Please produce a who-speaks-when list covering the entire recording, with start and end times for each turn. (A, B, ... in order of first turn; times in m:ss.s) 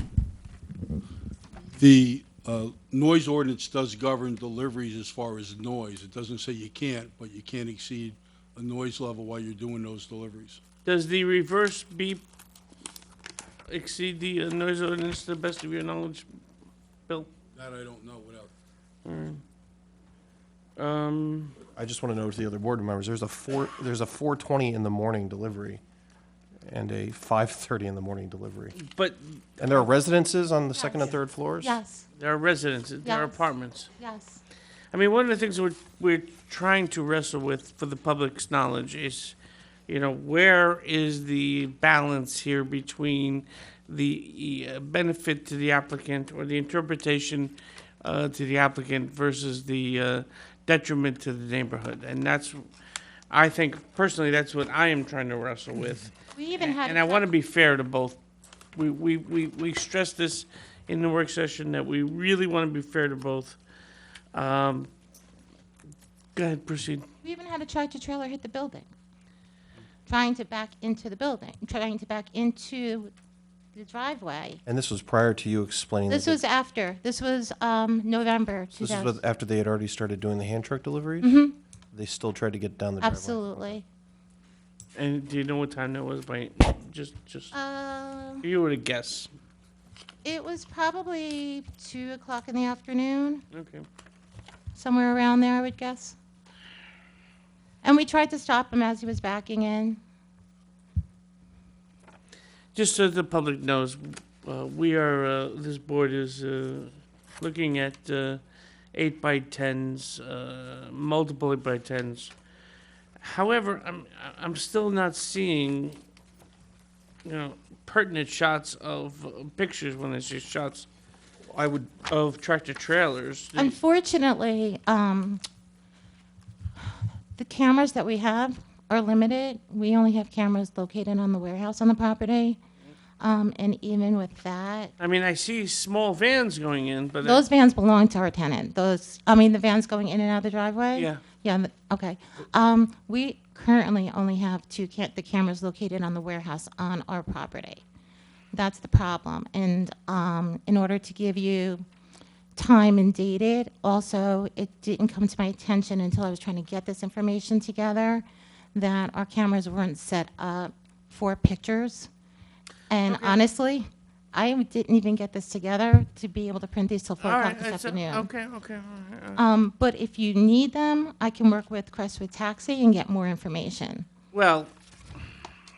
0:01.8-0:10.6 A
0:10.8-0:12.2 B
0:13.7-0:16.3 B
0:17.5-0:18.5 A
0:19.0-0:19.4 B
0:20.8-0:21.6 B
0:21.8-0:25.8 C
0:26.7-0:28.8 C
0:28.8-0:29.9 B
0:29.6-0:31.8 C
0:30.8-0:32.1 D
0:32.2-0:33.9 B
0:33.0-0:34.4 D
0:34.9-0:39.4 B
0:39.9-0:52.6 B
0:53.3-0:58.2 B
0:56.3-0:57.3 D
0:58.8-1:03.6 B
1:04.3-1:04.9 B
1:06.4-1:07.1 B
1:07.2-1:08.9 D
1:10.1-1:13.1 D
1:13.8-1:14.6 D
1:14.7-1:16.4 C
1:16.1-1:19.2 D
1:18.8-1:21.4 C
1:21.2-1:21.6 D
1:21.9-1:23.8 C
1:23.0-1:23.8 D
1:25.0-1:27.5 B
1:27.5-1:28.5 D
1:28.4-1:29.3 B
1:30.2-1:33.4 D
1:33.5-1:33.8 B
1:34.8-1:36.2 D
1:37.8-1:40.0 D
1:42.8-1:48.4 B
1:48.9-1:52.3 B
1:53.2-1:56.0 B
1:57.2-2:00.9 B
2:01.5-2:02.0 C
2:02.0-2:03.8 B
2:03.6-2:05.4 D
2:07.4-2:12.6 D
2:13.2-2:14.9 D
2:15.0-2:17.5 B
2:17.2-2:27.8 D
2:21.0-2:21.2 B
2:28.5-2:31.8 D
2:32.6-2:42.1 D
2:42.9-2:48.3 D
2:43.1-2:43.4 B
2:47.2-2:49.4 B
2:49.4-2:54.1 D
2:54.3-2:54.7 B